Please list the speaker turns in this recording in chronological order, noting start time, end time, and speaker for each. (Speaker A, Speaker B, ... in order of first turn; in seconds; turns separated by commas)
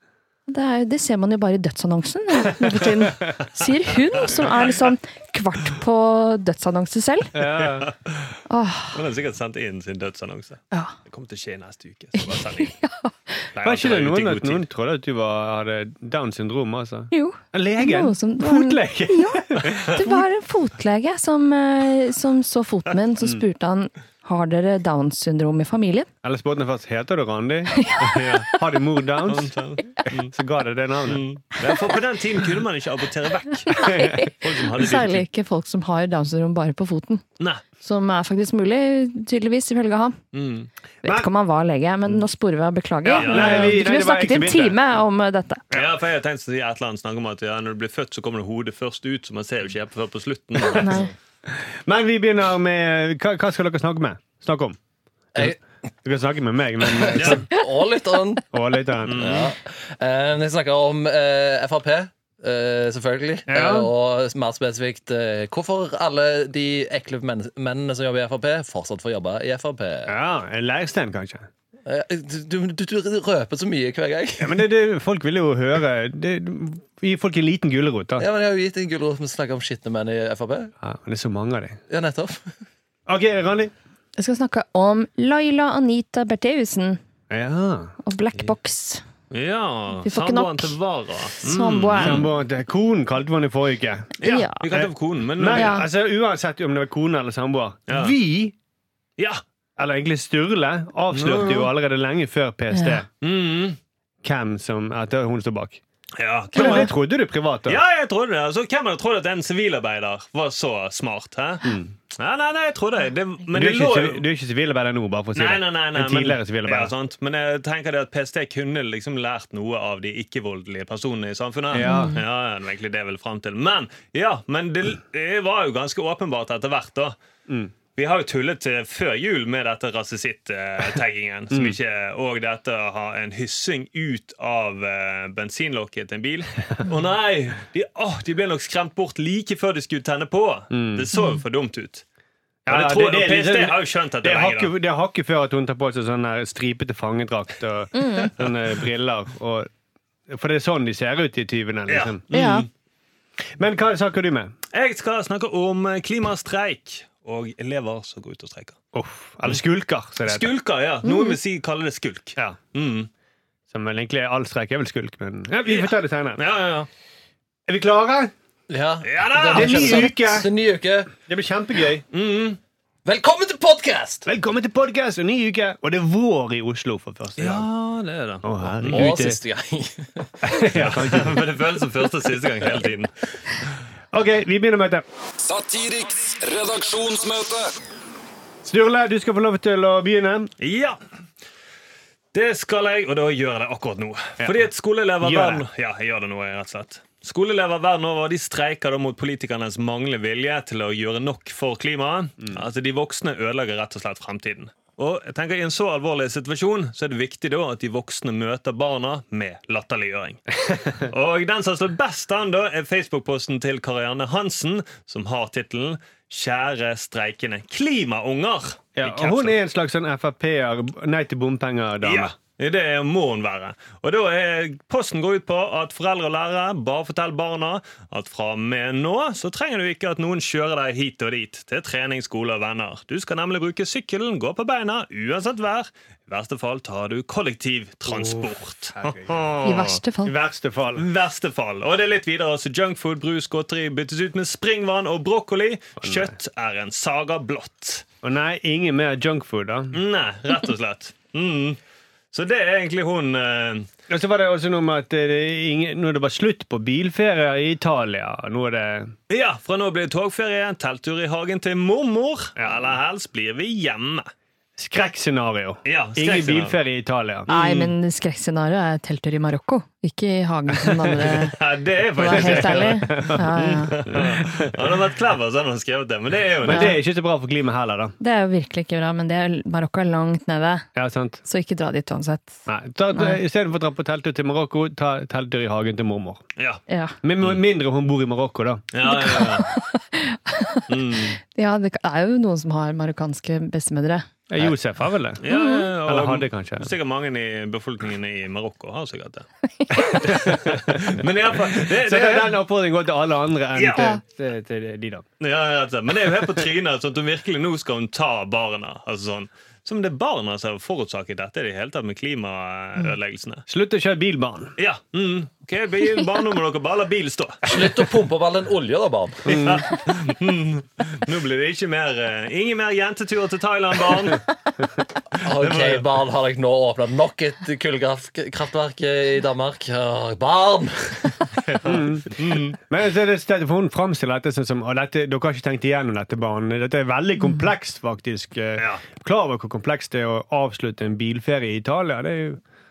Speaker A: 0.5-7.3, Speaker B: 7.3-7.9, Speaker C: 7.5-8.3, Speaker A: 8.5-9.0, Speaker C: 8.9-12.7, Speaker A: 12.2-13.5, Speaker C: 13.5-14.6, Speaker B: 13.6-20.2, Speaker A: 17.1-26.1, Speaker B: 26.2-29.6, Speaker A: 27.8-28.6, Speaker C: 29.3-30.3, Speaker B: 30.1-31.2, Speaker C: 31.1-35.2, Speaker A: 33.7-37.2, Speaker B: 33.8-34.1, Speaker A: 37.8-40.2, Speaker C: 40.3-40.7, Speaker A: 41.0-45.6, Speaker B: 41.0-41.3, Speaker B: 43.1-44.8, Speaker C: 43.1-43.8, Speaker C: 45.7-51.0, Speaker A: 50.7-51.1, Speaker B: 51.9-54.8, Speaker B: 56.0-57.5, Speaker D: 56.8-58.4, Speaker C: 57.2-57.4, Speaker B: 58.5-59.4, Speaker C: 59.1-59.5, Speaker D: 59.1-70.1, Speaker B: 63.5-63.9, Speaker B: 70.1-71.5, Speaker D: 71.8-74.6, Speaker B: 74.4-78.3, Speaker D: 78.2-80.7, Speaker B: 80.8-81.8, Speaker D: 81.9-82.5, Speaker B: 83.1-83.7, Speaker A: 84.2-87.0, Speaker B: 87.3-88.0, Speaker A: 88.0-89.0, Speaker C: 89.3-92.3, Speaker A: 90.0-90.8, Speaker A: 91.4-92.3, Speaker B: 92.0-94.1, Speaker C: 94.2-95.8, Speaker A: 94.2-94.9, Speaker B: 94.7-98.5, Speaker A: 95.5-95.9, Speaker C: 97.9-98.2, Speaker B: 99.8-103.1, Speaker C: 101.1-101.7, Speaker A: 102.7-103.0, Speaker C: 103.2-103.8, Speaker B: 104.2-105.8, Speaker C: 106.2-106.9, Speaker B: 106.5-107.8, Speaker A: 106.6-106.9, Speaker C: 107.7-114.2, Speaker B: 111.6-111.9, Speaker B: 113.5-116.9, Speaker C: 115.3-127.2, Speaker B: 121.7-122.2, Speaker A: 121.8-122.2, Speaker C: 128.0-142.0, Speaker B: 140.7-141.1, Speaker B: 142.7-149.7, Speaker C: 142.7-144.7, Speaker A: 147.9-148.3, Speaker B: 150.3-152.2, Speaker C: 151.9-152.7, Speaker A: 152.3-152.7, Speaker B: 153.6-154.5, Speaker C: 154.7-158.8, Speaker B: 158.9-160.5, Speaker C: 160.2-163.1, Speaker A: 161.0-161.4, Speaker B: 163.7-166.4, Speaker C: 165.6-166.9, Speaker B: 167.7-168.3, Speaker D: 168.7-171.1, Speaker C: 169.0-170.1, Speaker B: 169.5-170.5, Speaker B: 171.2-172.0, Speaker C: 172.1-172.6, Speaker D: 173.1-174.3, Speaker B: 174.3-177.7, Speaker C: 177.4-179.1, Speaker B: 178.4-179.4, Speaker D: 178.9-180.7, Speaker B: 180.4-181.5, Speaker C: 180.7-183.1, Speaker B: 184.1-185.1, Speaker E: 185.4-187.7, Speaker B: 188.7-190.5, Speaker C: 190.6-191.0, Speaker C: 192.3-210.4, Speaker B: 195.2-195.6, Speaker C: 211.0-219.6, Speaker B: 219.0-222.3, Speaker C: 222.0-240.0, Speaker B: 238.1-239.3, Speaker A: 239.6-240.3, Speaker B: 240.2-241.0, Speaker C: 241.0-248.1, Speaker B: 246.0-246.3, Speaker B: 248.2-250.0, Speaker C: 249.9-251.8, Speaker C: 252.3-253.9, Speaker B: 254.1-259.1, Speaker C: 259.3-264.3, Speaker B: 262.6-262.9, Speaker B: 264.8-267.9, Speaker C: 265.9-266.8, Speaker A: 267.5-271.6, Speaker C: 271.2-276.9, Speaker A: 272.2-274.0, Speaker B: 272.2-274.9, Speaker A: 276.6-277.0, Speaker B: 276.6-278.1, Speaker A: 278.2-280.9, Speaker B: 280.9-281.4, Speaker A: 281.4-283.4, Speaker B: 282.7-286.4, Speaker A: 286.9-287.2, Speaker B: 287.2-288.9, Speaker C: 288.9-289.7, Speaker A: 289.0-294.3, Speaker C: 290.9-291.4, Speaker B: 294.5-295.4, Speaker C: 295.4-299.5, Speaker A: 295.5-295.9, Speaker B: 296.1-296.9, Speaker A: 299.8-300.2, Speaker B: 300.1-301.2, Speaker C: 300.2-302.6, Speaker B: 301.8-305.2, Speaker C: 303.8-304.1, Speaker C: 305.4-313.6, Speaker B: 313.7-314.7, Speaker C: 314.8-317.6, Speaker D: 317.7-319.6, Speaker B: 319.5-319.9, Speaker C: 319.5-324.4, Speaker D: 325.4-331.5, Speaker C: 325.6-326.1, Speaker C: 331.8-332.8, Speaker B: 331.9-342.6, Speaker C: 338.8-339.0